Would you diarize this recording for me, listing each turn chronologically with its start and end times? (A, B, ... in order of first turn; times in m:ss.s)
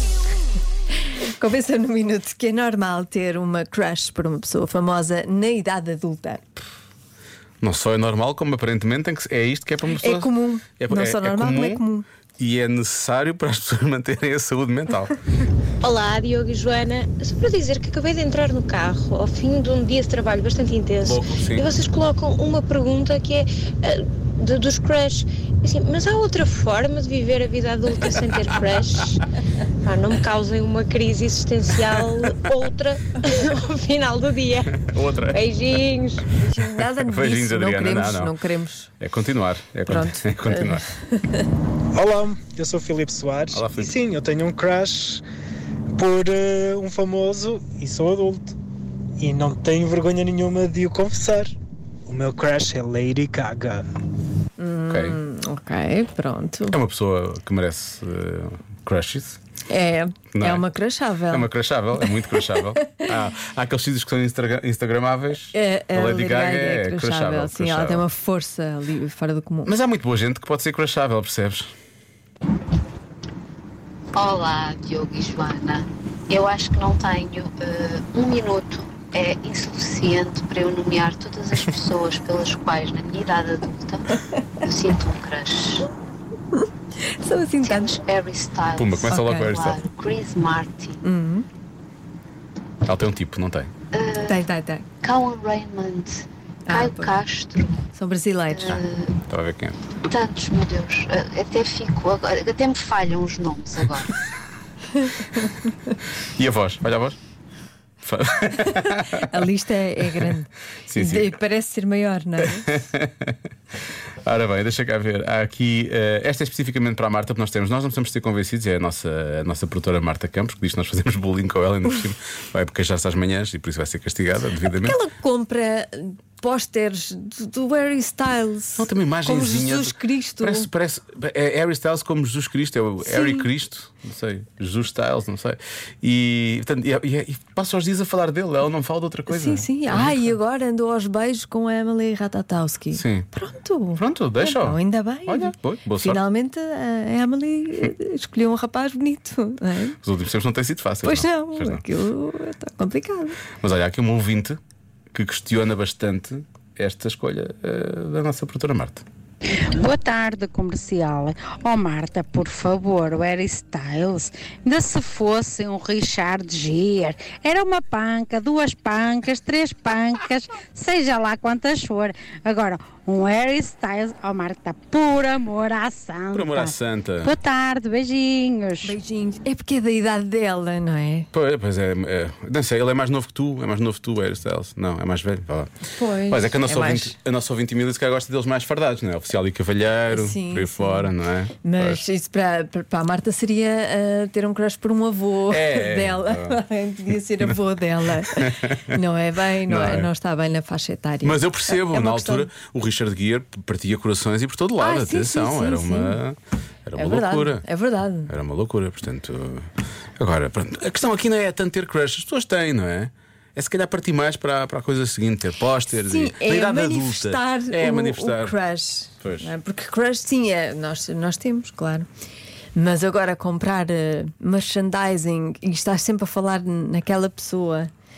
0:01.2-0:06.4 A
0:07.6-0:11.8 B
0:10.0-0:12.0 A
0:12.4-0:15.2 B
0:15.8-0:29.2 C
0:21.0-0:21.7 B
0:29.8-0:34.7 C
0:34.6-0:35.4 B
0:35.3-0:36.2 C
0:36.3-0:38.9 A
0:36.8-0:38.3 B
0:39.0-0:40.8 B
0:39.9-0:41.5 A
0:41.9-0:45.2 D
0:43.5-0:44.0 B
0:45.9-0:48.6 D
0:49.2-0:51.5 D
0:52.1-0:53.8 D
0:54.6-0:56.8 A
0:54.9-0:55.2 B
0:56.7-0:59.4 B
0:59.7-1:03.0 A
1:00.3-1:00.6 B
1:01.3-1:08.1 B
1:05.5-1:09.7 A
1:09.6-1:11.7 B
1:14.1-1:24.1 E
1:24.6-1:25.9 E
1:26.5-1:28.0 A
1:27.6-1:31.0 E
1:28.8-1:29.8 B
1:29.1-1:29.6 A
1:31.0-1:31.4 A
1:32.8-1:33.7 B
1:33.9-1:34.4 E
1:34.3-1:34.8 A
1:35.0-1:37.8 E
1:36.7-1:37.2 A
1:37.9-1:38.8 A
1:38.5-1:39.2 E
1:38.7-1:39.9 B
1:40.0-1:44.2 E
1:45.0-1:45.4 A
1:46.2-1:47.2 B
1:48.0-1:49.5 B
1:48.6-1:52.8 A
1:50.0-1:50.3 B
1:50.9-1:51.3 B
1:52.4-1:53.4 B
1:54.2-2:05.0 B
2:04.7-2:10.7 A
2:08.8-2:20.4 B
2:13.0-2:13.5 A
2:19.3-2:30.0 A
2:22.9-2:23.3 B
2:24.0-2:26.2 B
2:30.0-2:31.8 B
2:31.0-2:33.4 A
2:33.6-2:34.6 B
2:35.1-2:39.0 B
2:39.5-2:59.0 F
2:56.3-2:57.3 B
2:58.8-3:01.3 A
3:01.3-3:05.7 B
3:05.9-3:07.2 A
3:06.3-3:12.0 B
3:10.1-3:11.1 A
3:11.6-3:22.5 A
3:15.5-3:16.6 B
3:18.2-3:19.0 B
3:19.7-3:20.1 B
3:21.2-3:27.6 B
3:24.8-3:26.2 A
3:27.0-3:28.3 A
3:28.3-3:38.6 B
3:35.9-3:42.1 A
3:39.2-3:39.5 B
3:42.7-3:47.9 A